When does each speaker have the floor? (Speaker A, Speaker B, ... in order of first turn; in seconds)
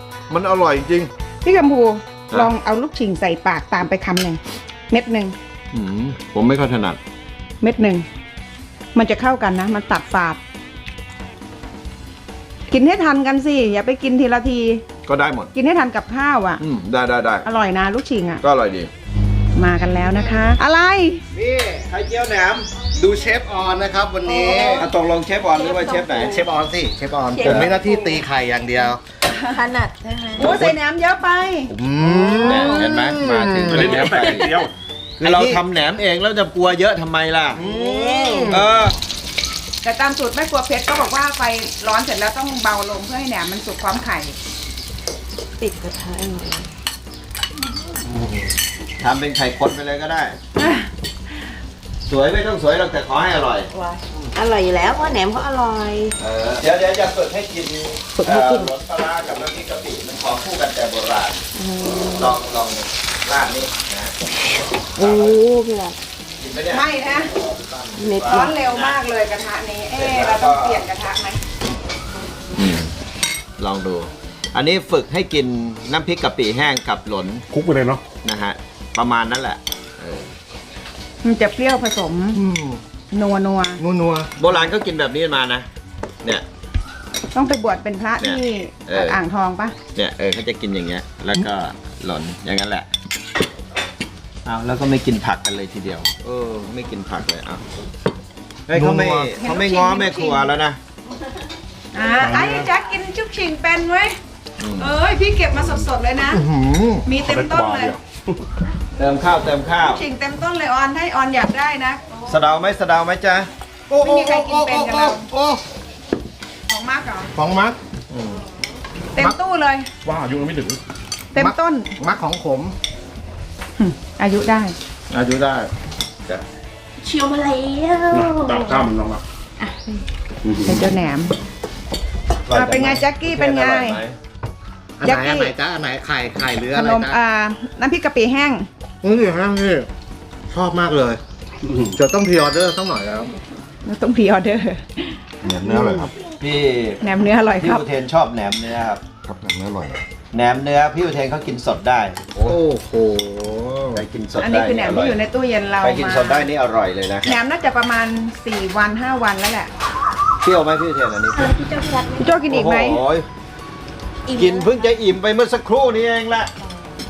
Speaker A: 0.3-1.1, 5.7-7.0, 15.1-15.5, 16.6-17.5, 18.4-18.9, 21.9-22.9, 24.6-26.5, 27.4-27.8, 30.5-30.8, 31.9-34.7, 35.2-37.7, 38.5-39.0, 49.0-50.4, 52.1-53.7, 56.2-61.5, 62.1-64.1, 65.0-65.5, 66.4-69.0, 70.0-70.9, 72.5-72.9, 73.6-77.5, 78.2-80.3, 84.4-85.7, 88.2-89.2, 90.0-92.9, 94.5-97.7, 98.7-100.8, 104.6-105.0, 106.3-107.1, 109.0-110.0, 112.2-113.5, 118.1-118.5, 125.1-125.7, 132.5-134.2, 145.4-147.0, 147.6-149.2, 150.3-152.6, 153.9-155.2, 155.8-157.4, 160.4-161.5, 162.5-163.3, 164.3-166.5
Speaker B: 1.4-5.3, 7.6-8.1, 8.9-10.4, 12.7-14.8, 15.5-16.6, 17.4-18.4, 19.6-21.2, 24.3-24.6, 30.4-31.7, 39.8-44.4, 50.6-50.9, 66.7-67.3, 68.2-71.4, 81.2-82.4, 83.1-83.8, 87.3-89.8, 99.3-100.5, 101.9-104.2, 104.8-106.4, 107.0-108.0, 109.8-112.0, 114.0-115.3, 116.7-117.3, 119.2-119.9, 121.3-121.9, 123.8-124.8, 130.6-131.3, 132.5-134.0, 135.0-135.6, 136.7-138.7, 143.8-146.1, 147.0-147.8, 154.4-156.5, 157.3-159.7, 162.2-163.0
Speaker C: 21.3-21.9, 22.9-24.9, 26.2-29.0, 31.7-34.0, 35.2-35.6, 37.5-38.6, 82.4-82.8, 83.8-84.3, 98.7-99.3, 113.9-115.6, 117.3-117.8, 121.4-122.8, 135.0-137.2, 139.0-139.9, 140.5-143.3, 149.3-150.0, 152.4-154.0
Speaker D: 24.3-24.9, 25.5-26.4, 27.3-28.3, 29.4-30.6, 32.5-32.9, 37.6-38.6, 45.6-46.7, 53.7-56.1, 58.1-58.7, 61.5-62.3, 65.0-66.0, 68.0-68.5, 127.0-128.9, 129.6-130.0, 161.4-162.4, 164.3-164.9
Speaker E: 33.7-34.7, 77.5-78.0, 102.2-102.7, 107.3-108.0, 120.1-120.8, 128.1-129.2